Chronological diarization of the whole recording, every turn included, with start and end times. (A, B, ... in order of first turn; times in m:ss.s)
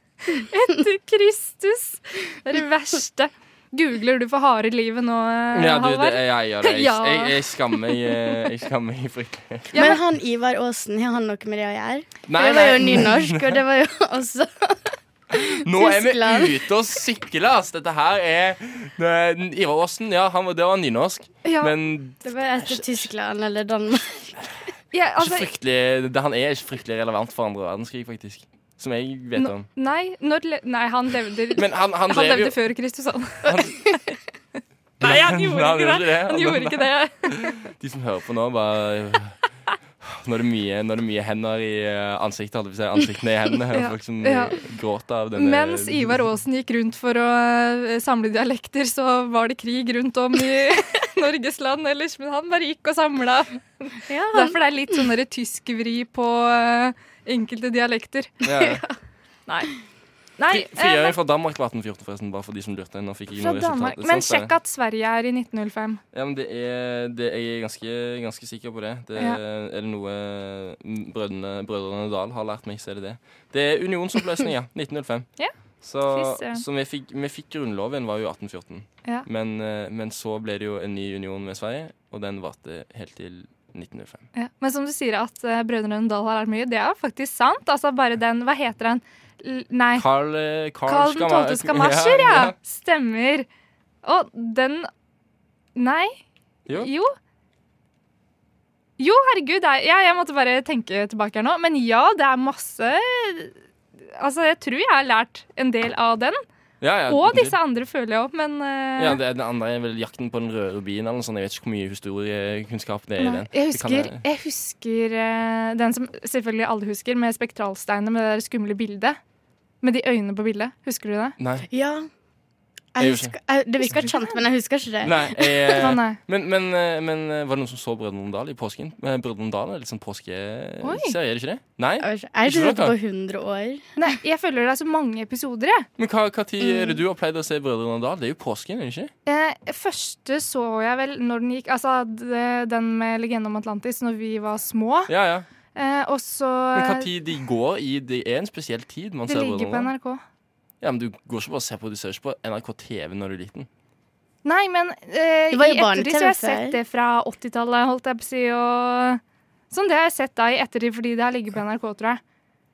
0:00.2-0:08.3 A
0:05.5-0:09.7 B
0:09.7-0:10.0 A
0:09.7-0:16.6 C
0:12.3-0:13.6 B
0:15.3-0:23.1 B
0:21.4-0:21.7 A
0:22.2-0:24.4 C
0:24.9-0:25.5 A
0:25.2-0:29.7 B
0:29.4-0:34.1 A
0:31.5-0:32.6 B
0:33.4-0:33.7 B
0:35.0-0:37.6 A
0:35.0-0:39.4 B
0:40.0-0:46.2 B
0:43.7-0:44.6 A
0:45.4-0:58.3 A
0:54.1-0:54.6 C
0:58.4-0:58.8 B
0:59.5-0:59.7 A
1:00.4-1:01.1 A
1:00.5-1:04.5 B
1:03.4-1:06.0 A
1:06.1-1:15.3 B
1:15.8-1:24.3 B
1:16.1-1:16.6 A
1:24.3-1:30.0 A
1:30.0-1:32.5 B
1:30.9-1:33.5 A
1:34.0-1:34.9 A
1:35.8-1:36.2 A
1:36.7-1:37.1 A
1:39.0-1:43.5 A
1:44.2-1:46.4 A
1:46.8-1:47.6 B
1:47.1-1:49.2 A
1:49.0-1:54.2 B
1:53.2-1:59.2 A
1:59.8-2:01.4 A
2:01.4-2:01.7 B
2:01.7-2:02.1 C
2:02.9-2:05.7 C
2:03.0-2:03.3 B
2:03.9-2:04.4 A
2:05.0-2:12.9 B
2:05.7-2:06.2 A
2:10.8-2:11.1 A
2:12.0-2:13.9 C
2:14.0-2:15.9 A
2:16.0-2:19.1 B
2:19.2-2:25.1 A
2:25.1-2:25.4 B
2:25.7-2:27.1 A
2:26.7-2:29.9 B
2:29.3-2:30.2 A
2:30.8-2:33.7 B
2:34.4-2:42.2 A
2:35.5-2:36.8 C